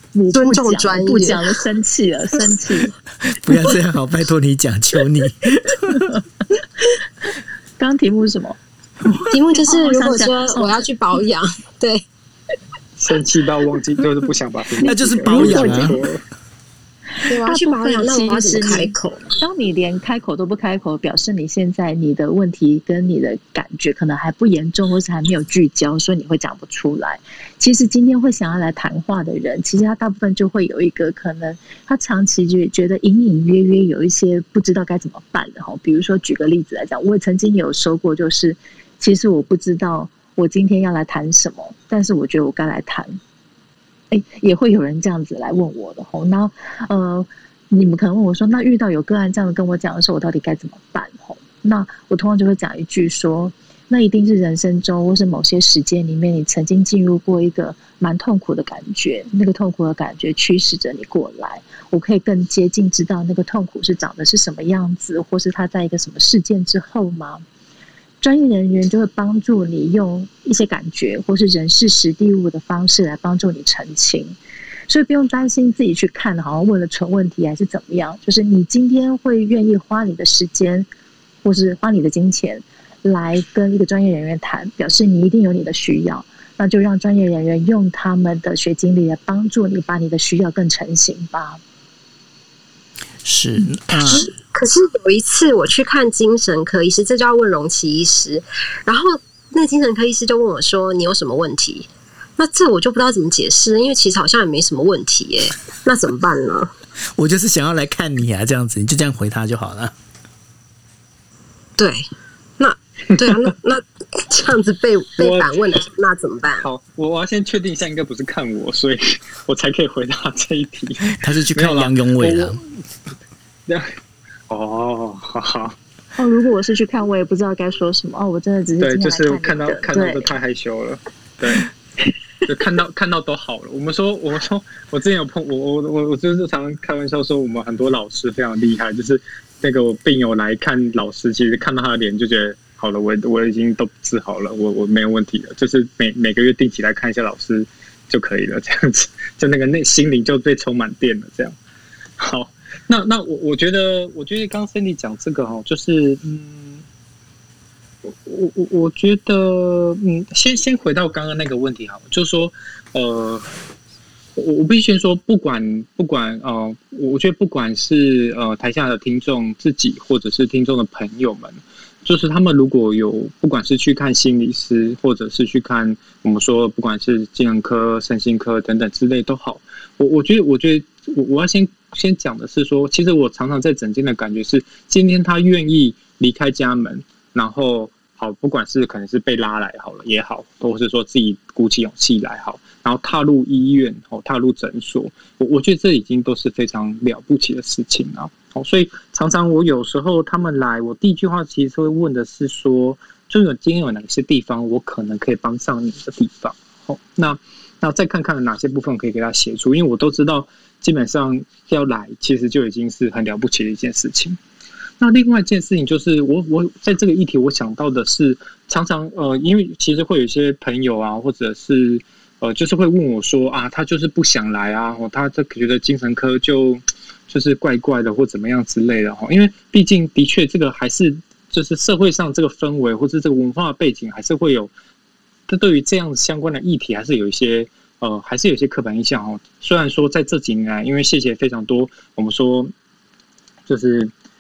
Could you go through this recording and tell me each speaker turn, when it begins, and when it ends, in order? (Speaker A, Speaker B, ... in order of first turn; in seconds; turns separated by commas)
Speaker A: 0.1-2.9, Speaker B: 0.3-1.6, Speaker C: 3.2-6.1, Speaker A: 7.8-8.6, Speaker A: 9.1-10.8, Speaker B: 9.3-12.0, Speaker D: 13.0-16.2, Speaker C: 14.8-16.0, Speaker A: 15.3-16.0, Speaker B: 17.3-19.3, Speaker A: 17.5-43.2, Speaker A: 44.1-67.4, Speaker A: 68.2-74.3, Speaker A: 74.9-80.9, Speaker A: 81.4-91.6, Speaker C: 93.2-94.3, Speaker B: 94.0-106.7, Speaker C: 107.2-109.9, Speaker B: 111.8-112.1, Speaker B: 112.6-116.7, Speaker D: 115.2-115.6, Speaker D: 116.6-122.6, Speaker C: 121.1-122.6, Speaker D: 124.5-125.8, Speaker A: 126.2-130.3, Speaker D: 128.8-131.7, Speaker D: 132.5-151.6, Speaker D: 152.2-156.8, Speaker D: 158.1-163.5, Speaker D: 164.4-214.4, Speaker D: 215.0-234.7, Speaker D: 235.5-242.7, Speaker D: 243.7-244.1